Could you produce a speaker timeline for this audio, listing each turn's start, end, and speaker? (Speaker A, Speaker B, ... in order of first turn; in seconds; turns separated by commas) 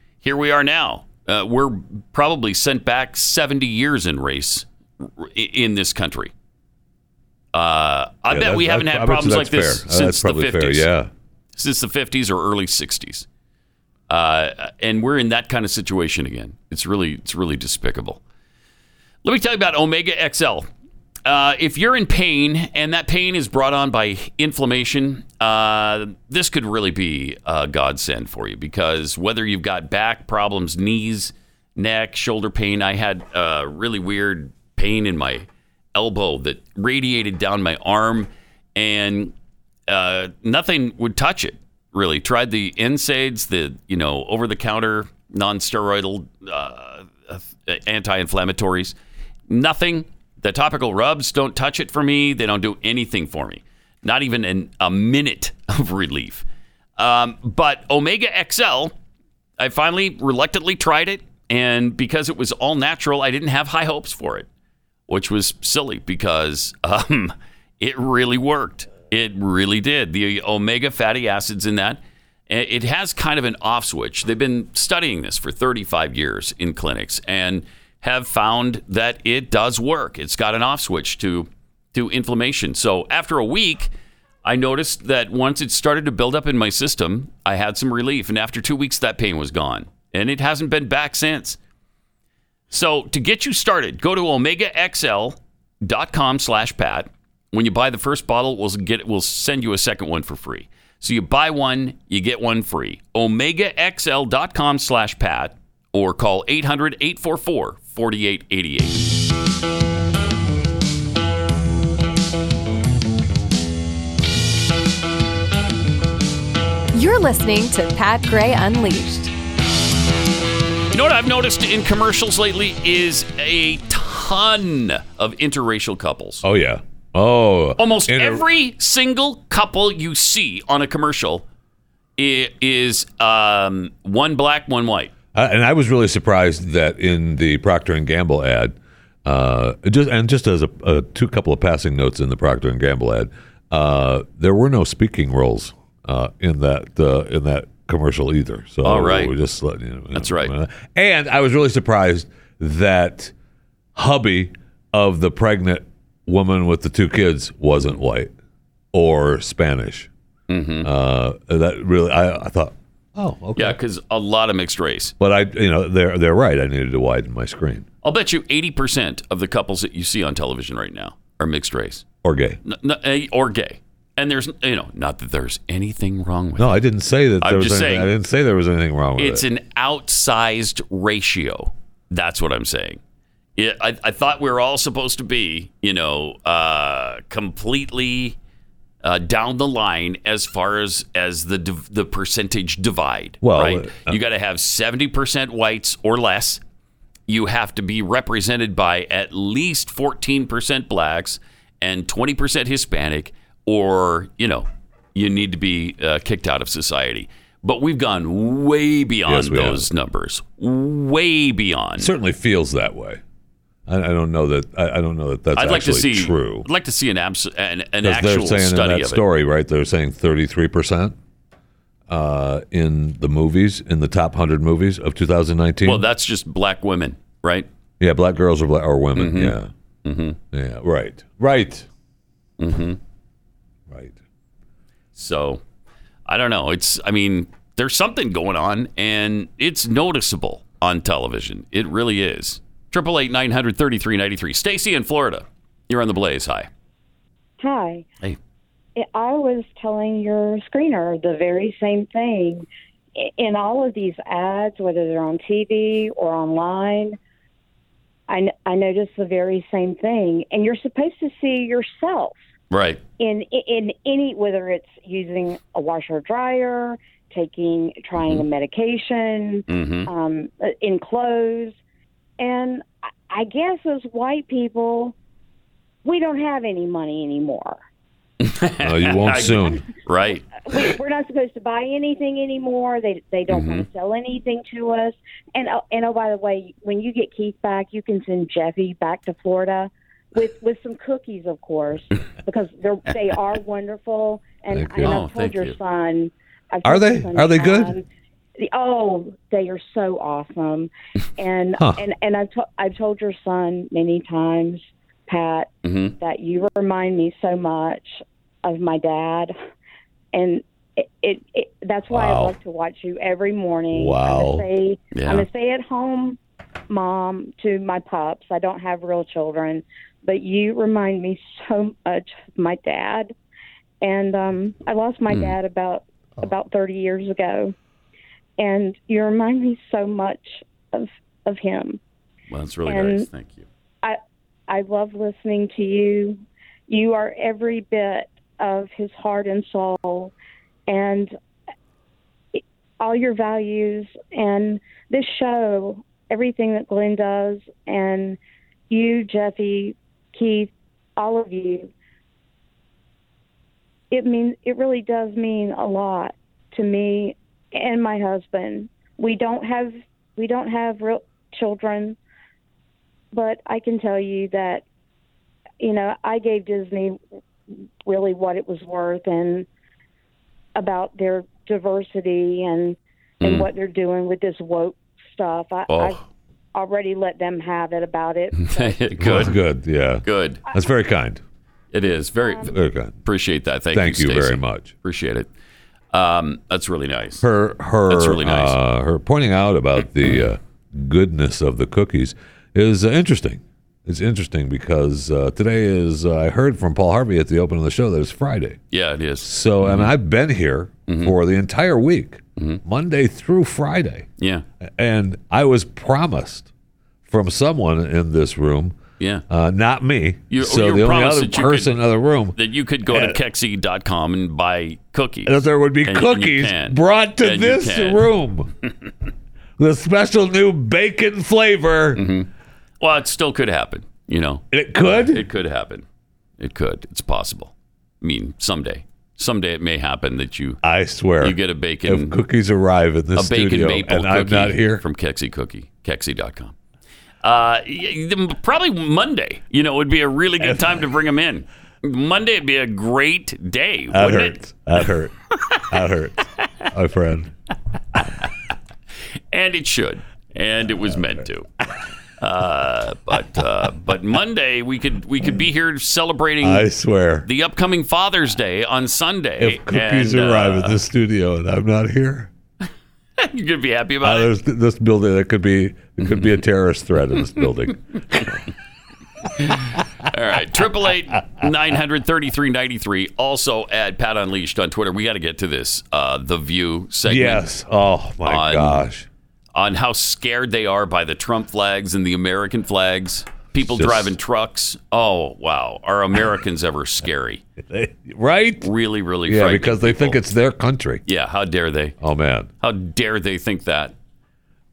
Speaker A: 0.2-6.3, Speaker A: 7.5-10.9, Speaker B: 8.3-11.1, Speaker A: 11.5-13.2, Speaker A: 14.1-18.2, Speaker A: 19.2-20.7, Speaker A: 21.2-39.3, Speaker A: 39.9-48.9, Speaker A: 49.5-56.4, Speaker A: 57.0-58.9, Speaker A: 59.6-64.5, Speaker A: 65.1-83.9, Speaker A: 84.4-91.6, Speaker A: 92.7-109.0, Speaker C: 116.9-119.3, Speaker A: 120.9-126.4, Speaker B: 126.4-128.4, Speaker A: 127.8-131.4, Speaker A: 132.2-135.1, Speaker B: 135.3-153.3, Speaker A: 148.8-149.3, Speaker A: 150.1-150.5, Speaker B: 153.9-158.3, Speaker B: 158.9-160.1, Speaker A: 160.5-160.9, Speaker B: 160.8-163.8, Speaker A: 163.6-165.1, Speaker B: 165.2-167.9, Speaker A: 168.0-172.0, Speaker B: 172.2-172.6, Speaker A: 172.6-176.8, Speaker B: 176.6-179.4, Speaker A: 177.4-178.1, Speaker A: 179.2-183.0, Speaker A: 183.6-188.4, Speaker A: 189.0-196.6, Speaker B: 193.4-194.2, Speaker A: 197.3-212.1, Speaker B: 209.3-209.9, Speaker B: 212.0-213.2, Speaker B: 213.9-216.7, Speaker A: 215.5-219.2, Speaker B: 218.0-221.2, Speaker B: 222.1-226.1, Speaker A: 225.8-227.7, Speaker B: 228.0-229.7, Speaker A: 229.2-230.4, Speaker B: 230.5-231.9, Speaker A: 232.6-233.0, Speaker B: 233.9-234.1, Speaker A: 235.1-235.6, Speaker A: 236.3-246.7, Speaker D: 247.6-248.0, Speaker D: 249.0-257.2, Speaker D: 258.3-262.4, Speaker A: 262.7-263.0, Speaker D: 263.2-271.8, Speaker A: 268.2-268.5, Speaker A: 269.7-270.1, Speaker D: 272.4-275.1, Speaker D: 276.0-277.8, Speaker A: 278.4-280.9, Speaker B: 278.8-279.8, Speaker D: 280.6-298.0, Speaker A: 283.5-283.9, Speaker B: 294.7-295.2, Speaker A: 295.0-295.8, Speaker B: 296.8-297.9, Speaker D: 298.6-309.5, Speaker A: 305.8-306.1, Speaker D: 310.3-316.4, Speaker B: 312.1-312.5, Speaker B: 313.9-314.6, Speaker A: 315.1-315.5, Speaker D: 316.9-323.3, Speaker D: 324.0-327.7, Speaker A: 325.3-325.6, Speaker D: 328.6-332.0, Speaker A: 332.5-333.6, Speaker D: 332.9-333.3, Speaker D: 334.7-340.3, Speaker D: 340.9-341.3, Speaker D: 342.5-348.4, Speaker D: 348.9-351.9, Speaker D: 354.1-362.2, Speaker D: 363.3-364.8, Speaker D: 365.8-367.2, Speaker D: 368.1-369.7, Speaker D: 370.8-376.2, Speaker A: 373.4-373.7, Speaker A: 375.9-376.2, Speaker D: 376.7-379.4, Speaker A: 378.5-379.6, Speaker B: 379.2-381.4, Speaker A: 380.2-380.6, Speaker A: 381.9-385.5, Speaker D: 382.4-382.7, Speaker B: 382.6-383.1, Speaker B: 383.9-384.9, Speaker A: 386.1-387.4, Speaker B: 387.4-398.8, Speaker A: 388.1-388.8, Speaker A: 398.9-400.1, Speaker B: 399.4-404.3, Speaker A: 401.1-401.3, Speaker A: 404.4-404.6, Speaker B: 404.8-406.7, Speaker B: 407.3-409.0, Speaker B: 409.5-413.4, Speaker A: 410.5-412.0, Speaker A: 412.5-418.3, Speaker B: 415.4-418.7, Speaker B: 419.8-422.2, Speaker A: 422.1-422.5, Speaker A: 423.0-426.0, Speaker B: 424.7-425.5, Speaker A: 426.6-430.8, Speaker B: 430.8-435.0, Speaker A: 431.4-432.4, Speaker A: 433.4-436.8, Speaker A: 437.4-444.6, Speaker B: 440.6-441.0, Speaker B: 444.1-447.5, Speaker A: 449.5-451.7, Speaker B: 451.1-451.4, Speaker A: 452.4-456.9, Speaker B: 456.6-457.5, Speaker A: 457.4-461.0, Speaker B: 459.6-462.5, Speaker A: 463.4-464.5, Speaker B: 464.2-468.6, Speaker A: 466.2-466.6, Speaker A: 469.6-477.6, Speaker B: 477.3-479.3, Speaker A: 478.4-479.1, Speaker A: 479.7-487.6, Speaker B: 483.8-484.3, Speaker B: 487.9-488.9, Speaker A: 488.8-490.4, Speaker B: 489.4-491.2, Speaker A: 491.2-492.1, Speaker B: 492.2-492.7, Speaker A: 492.8-494.1